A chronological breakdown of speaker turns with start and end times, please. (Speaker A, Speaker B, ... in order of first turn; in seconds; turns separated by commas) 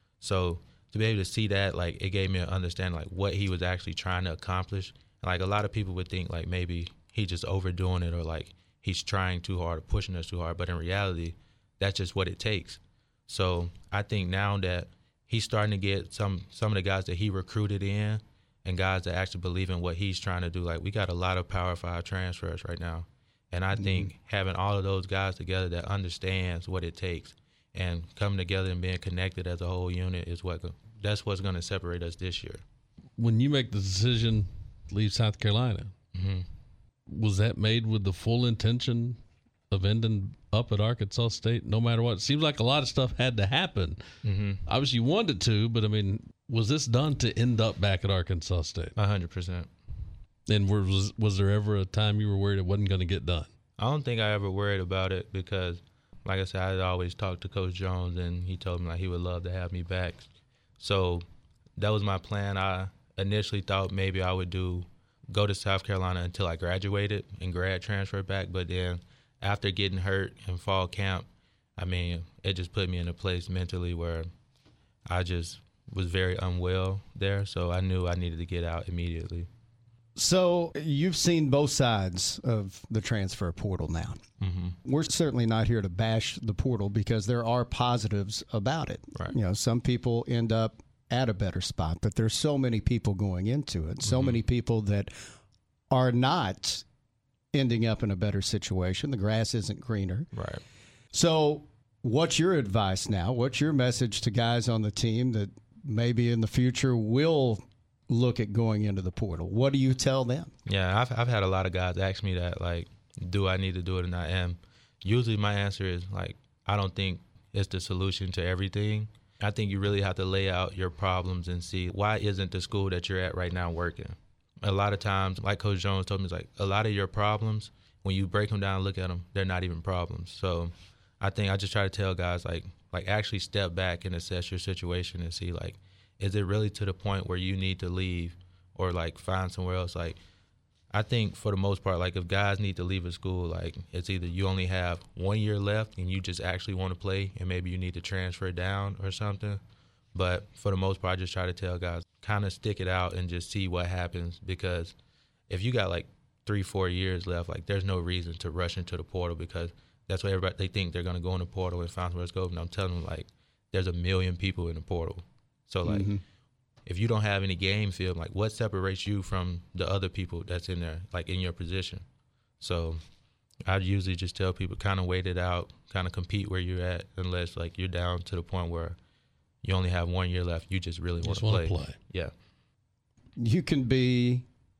Speaker A: 0.2-32.6, Speaker B: 23.8-24.1, Speaker C: 33.2-35.9, Speaker A: 36.1-36.5, Speaker C: 37.1-39.2, Speaker C: 39.7-44.0, Speaker A: 44.2-44.6, Speaker C: 44.7-48.9, Speaker A: 49.0-49.7, Speaker C: 50.5-53.5, Speaker A: 53.8-60.2, Speaker A: 60.8-61.2, Speaker A: 61.8-74.3, Speaker A: 75.1-79.5, Speaker B: 80.2-84.2, Speaker A: 84.4-84.8, Speaker B: 84.8-95.1, Speaker A: 94.0-94.4, Speaker B: 95.9-96.8, Speaker B: 97.5-100.3, Speaker A: 100.3-100.6, Speaker B: 101.1-110.5, Speaker A: 110.7-140.2, Speaker A: 140.9-149.6, Speaker A: 150.2-154.9, Speaker A: 155.5-166.1, Speaker B: 165.8-166.2, Speaker A: 166.9-172.0, Speaker A: 172.6-173.0, Speaker A: 173.7-179.0, Speaker A: 179.6-182.3, Speaker C: 181.2-182.0, Speaker B: 183.4-184.5